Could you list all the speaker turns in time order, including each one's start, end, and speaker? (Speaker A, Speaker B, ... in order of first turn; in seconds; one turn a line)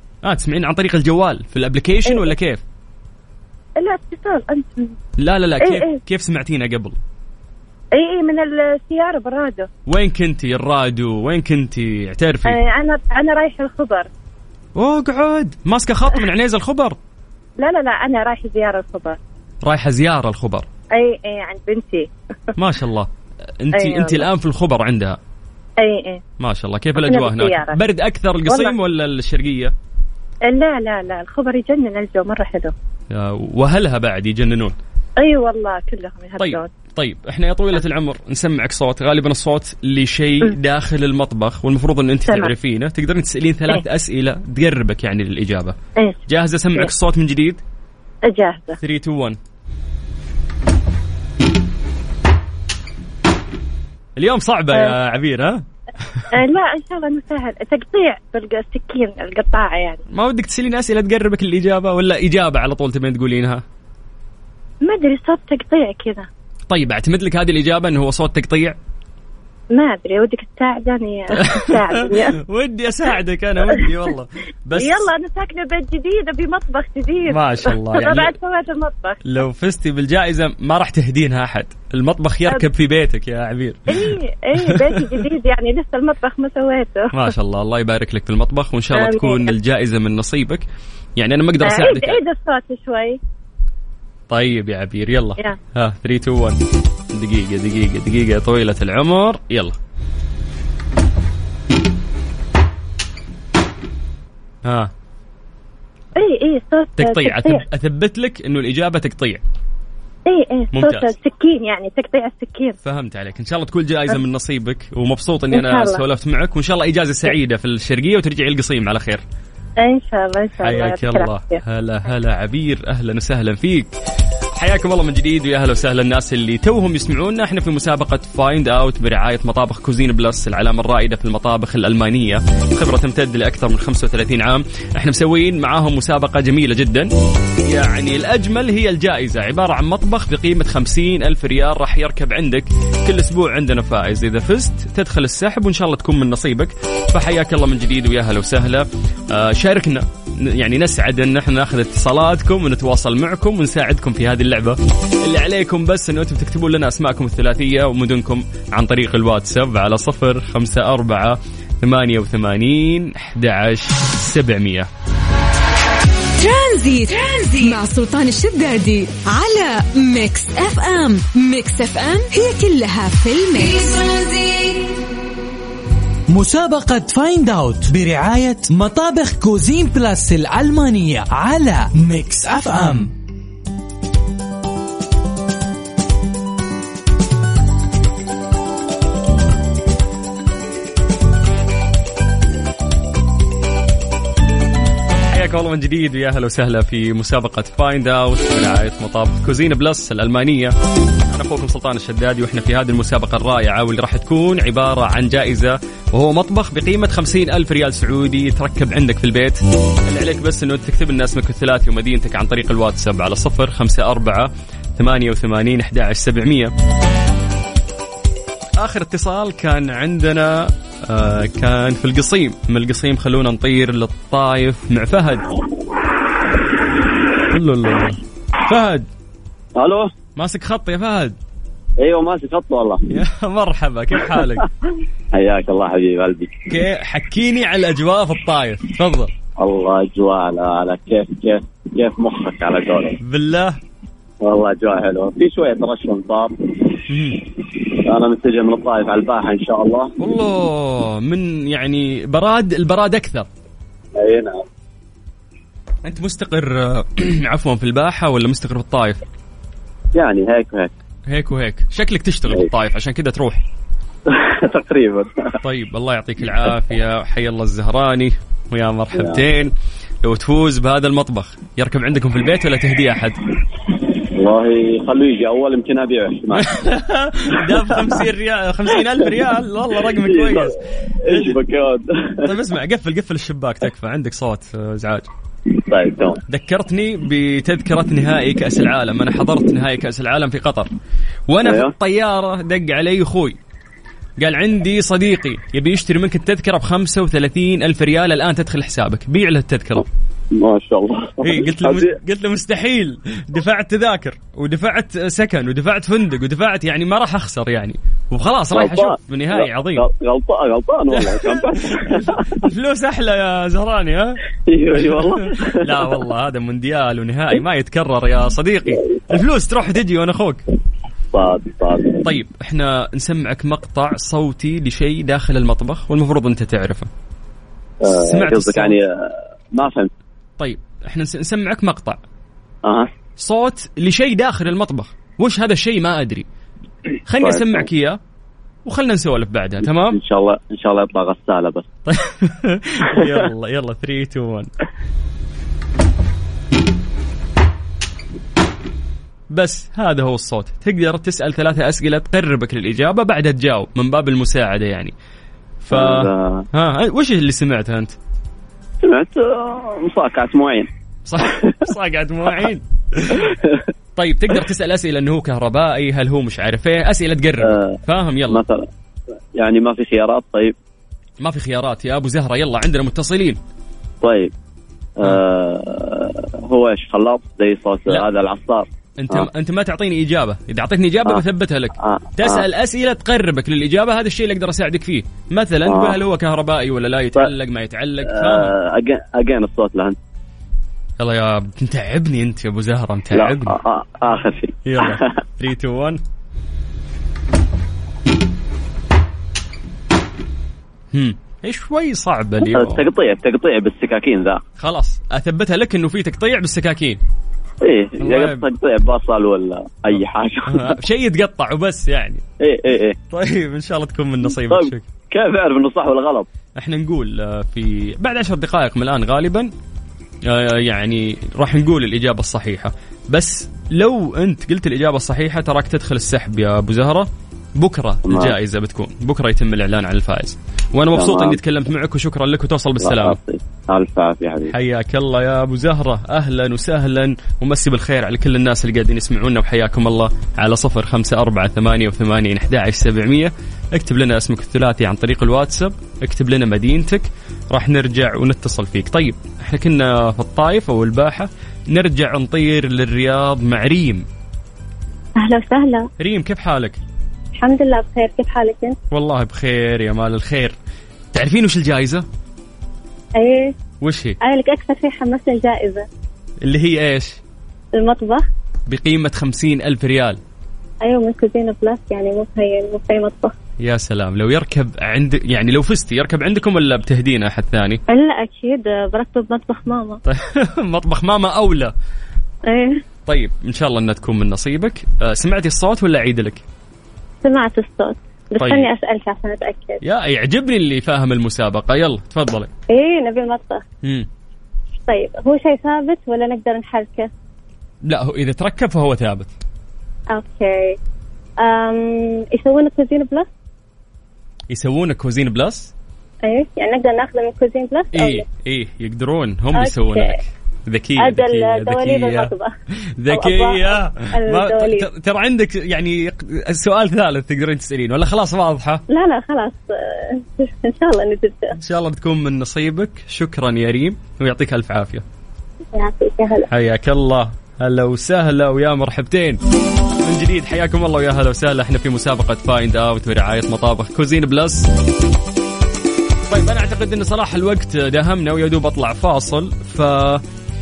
Speaker A: 0.2-2.6
Speaker B: 3.8-4.9
Speaker A: 5.2-7.0
Speaker B: 5.6-6.0
Speaker B: 7.9-9.7
Speaker A: 9.9-12.6
Speaker B: 12.4-14.1
Speaker A: 14.8-17.0
Speaker B: 17.6-19.2
Speaker A: 19.6-20.7
Speaker B: 20.9-22.1
Speaker A: 22.6-25.2
Speaker B: 23.7-24.2
Speaker B: 25.8-26.2
Speaker A: 26.4-29.7
Speaker B: 27.0-27.8
Speaker B: 28.5-28.7
Speaker B: 30.4-32.7
Speaker A: 33.1-34.8
Speaker B: 35.2-36.7
Speaker A: 36.4-45.8
Speaker B: 42.3-42.5
Speaker A: 46.3-47.6
Speaker B: 48.2-48.8
Speaker A: 48.8-49.4
Speaker A: 54.2-56.3
Speaker B: 56.3-60.0
Speaker A: 60.1-63.6
Speaker B: 64.8-66.3
Speaker A: 66.7-68.8
Speaker B: 69.7-72.4
Speaker A: 71.4-75.1
Speaker B: 74.8-79.3
Speaker A: 77.3-78.3
Speaker A: 79.2-85.1
Speaker B: 83.9-87.2
Speaker A: 87.1-90.6
Speaker B: 88.9-89.5
Speaker A: 91.2-92.2
Speaker B: 91.6-93.2
Speaker A: 94.3-96.6
Speaker A: 97.1-99.8
Speaker A: 104.6-104.9
Speaker B: 106.2-107.6
Speaker A: 107.0-109.4
Speaker B: 110.2-112.8
Speaker A: 110.7-111.1
Speaker A: 112.8-119.2
Speaker B: 115.5-116.0
Speaker B: 119.8-121.6
Speaker A: 120.6-123.9
Speaker A: 124.5-137.1
Speaker A: 137.7-164.9
Speaker C: 166.3-174.8
Speaker D: 176.3-183.1
Speaker A: 195.3-200.7
Speaker A: 201.3-216.7
Speaker A: 218.8-225.5
Speaker A: 227.5-229.1
Speaker E: 229.8-230.1
Speaker A: 230.3-231.4
Speaker E: 232.0-233.0
Speaker A: 233.1-234.7
Speaker E: 235.3-236.6
Speaker A: 236.7-239.3
Speaker E: 239.6-243.2
Speaker A: 243.2-243.8
Speaker E: 244.4-247.0
Speaker A: 247.1-247.4
Speaker E: 247.6-250.1
Speaker A: 250.2-253.5
Speaker E: 254.1-254.7
Speaker A: 256.0-259.2
Speaker E: 260.1-260.9
Speaker A: 261.3-263.6
Speaker E: 264.2-265.6
Speaker A: 265.6-269.7
Speaker E: 269.1-269.4
Speaker A: 270.2-273.4
Speaker E: 274.2-276.7
Speaker A: 276.5-281.6
Speaker E: 277.5-278.1
Speaker E: 280.0-282.5
Speaker A: 282.4-285.3
Speaker E: 285.7-286.4
Speaker A: 286.5-290.9
Speaker A: 291.5-293.6
Speaker E: 291.6-291.9
Speaker A: 294.4-300.0
Speaker E: 300.5-302.1
Speaker A: 301.4-310.1
Speaker E: 308.7-312.6
Speaker A: 311.1-314.4
Speaker E: 314.7-316.2
Speaker A: 314.9-320.6
Speaker E: 321.3-322.2
Speaker A: 322.2-327.1
Speaker E: 328.0-330.1
Speaker A: 328.1-329.0
Speaker A: 330.6-332.2
Speaker E: 332.8-333.1
Speaker A: 333.4-336.4
Speaker A: 337.3-338.2
Speaker E: 337.4-337.8
Speaker A: 338.8-340.2
Speaker E: 339.9-341.9
Speaker A: 342.1-344.7
Speaker E: 343.1-343.4
Speaker A: 349.5-355.1
Speaker A: 355.8-358.1
Speaker E: 355.9-356.6
Speaker E: 359.0-360.9
Speaker A: 361.2-363.5
Speaker E: 361.4-361.9
Speaker E: 363.3-363.9
Speaker A: 364.1-368.6
Speaker E: 367.6-368.0
Speaker E: 368.5-368.9
Speaker E: 369.6-370.8
Speaker A: 371.4-373.6
Speaker E: 374.2-374.5
Speaker E: 375.2-379.5
Speaker A: 379.2-388.7
Speaker E: 382.0-382.6
Speaker E: 385.9-386.2
Speaker E: 388.3-390.2
Speaker A: 391.2-393.8
Speaker E: 393.3-395.2
Speaker A: 394.8-396.2
Speaker A: 401.1-403.1
Speaker E: 402.6-404.6
Speaker A: 404.8-407.2
Speaker E: 407.8-411.0
Speaker A: 408.2-408.6
Speaker A: 410.1-412.4
Speaker E: 412.6-413.2
Speaker A: 413.3-415.0
Speaker E: 414.7-416.5
Speaker A: 416.8-419.7
Speaker A: 420.4-433.4
Speaker E: 428.3-428.5
Speaker E: 431.1-431.6
Speaker E: 433.0-434.7
Speaker A: 434.7-454.2
Speaker B: 455.4-456.1
Speaker A: 456.2-457.0
Speaker B: 457.5-459.0
Speaker A: 459.1-460.7
Speaker A: 461.3-462.2
Speaker B: 463.3-463.7
Speaker A: 464.0-464.4
Speaker B: 464.4-466.1
Speaker A: 466.6-467.4
Speaker B: 467.9-468.4
Speaker A: 468.9-470.4
Speaker B: 471.0-473.5
Speaker A: 473.8-478.0
Speaker B: 478.1-480.2
Speaker A: 480.2-481.9
Speaker B: 482.6-483.0
Speaker A: 483.3-486.6
Speaker B: 487.4-490.0
Speaker A: 488.6-488.9
Speaker A: 490.0-492.7
Speaker B: 492.9-493.8
Speaker A: 494.0-494.3
Speaker B: 495.1-497.3
Speaker A: 498.0-499.5
Speaker B: 500.3-501.0
Speaker B: 501.6-503.5
Speaker A: 504.7-505.9
Speaker B: 506.4-508.4
Speaker A: 508.1-512.5
Speaker B: 509.7-510.4
Speaker B: 511.2-512.7
Speaker A: 513.2-519.0
Speaker B: 513.3-515.1
Speaker B: 519.1-521.8
Speaker A: 521.8-525.2
Speaker B: 525.9-526.7
Speaker A: 526.7-529.6
Speaker A: 530.2-534.9
Speaker A: 536.5-540.4